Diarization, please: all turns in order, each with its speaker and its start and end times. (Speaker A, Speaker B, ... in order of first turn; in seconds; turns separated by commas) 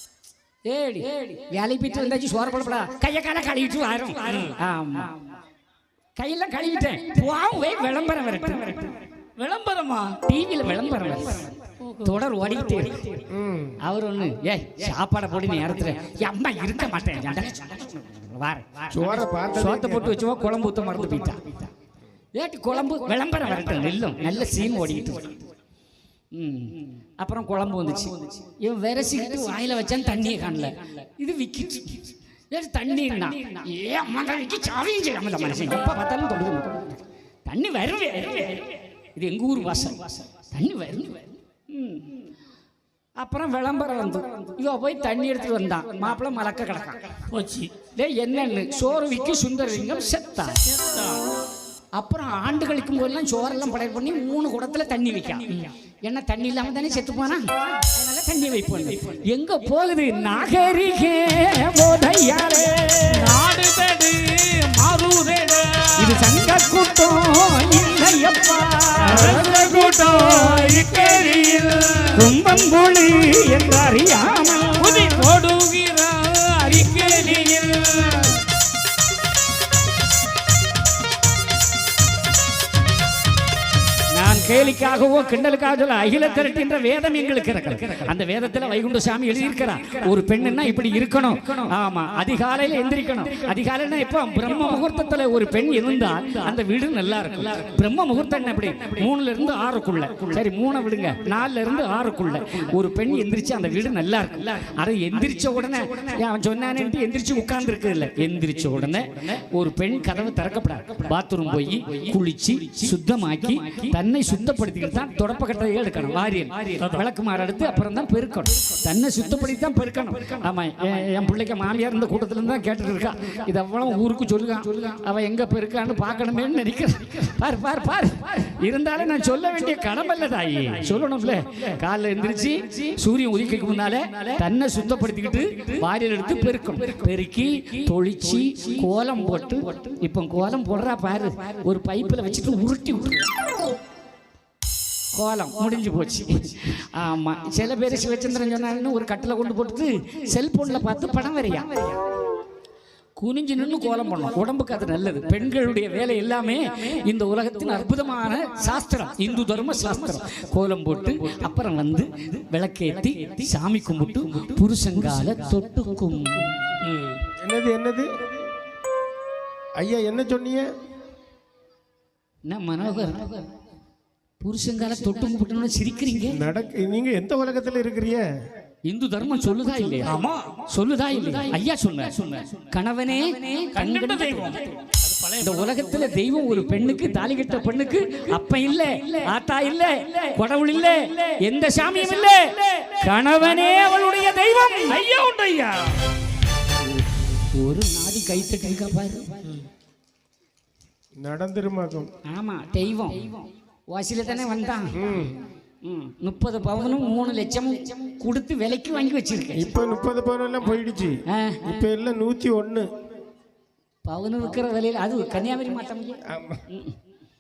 Speaker A: 0.7-5.2, Speaker A: 6.2-9.1, Speaker B: 9.4-10.2, Speaker A: 10.1-21.7, Speaker C: 13.3-13.8, Speaker C: 18.9-20.2, Speaker A: 22.3-25.5, Speaker A: 26.3-42.2, Speaker A: 43.2-47.3, Speaker B: 47.3-47.7, Speaker A: 47.9-50.7, Speaker B: 50.7-51.2, Speaker A: 51.9-63.5, Speaker B: 63.1-66.3, Speaker A: 65.9-70.9, Speaker B: 69.0-72.2, Speaker A: 72.1-75.2, Speaker B: 74.7-78.4, Speaker A: 84.1-143.3, Speaker B: 116.7-117.0, Speaker A: 145.1-152.0, Speaker A: 153.2-166.7, Speaker B: 166.8-167.1, Speaker C: 167.1-168.3, Speaker C: 169.8-170.7, Speaker A: 172.5-173.5, Speaker A: 174.4-176.5, Speaker C: 176.3-178.3, Speaker A: 178.9-184.8, Speaker B: 180.1-180.7, Speaker B: 182.1-182.4, Speaker B: 183.7-185.7, Speaker A: 185.3-195.1, Speaker B: 194.9-196.0, Speaker A: 197.3-199.6, Speaker C: 201.2-202.1, Speaker A: 202.2-205.2, Speaker C: 204.9-205.4, Speaker A: 205.8-209.8, Speaker C: 209.5-212.9, Speaker A: 211.3-211.6, Speaker A: 214.1-217.0, Speaker C: 216.2-216.7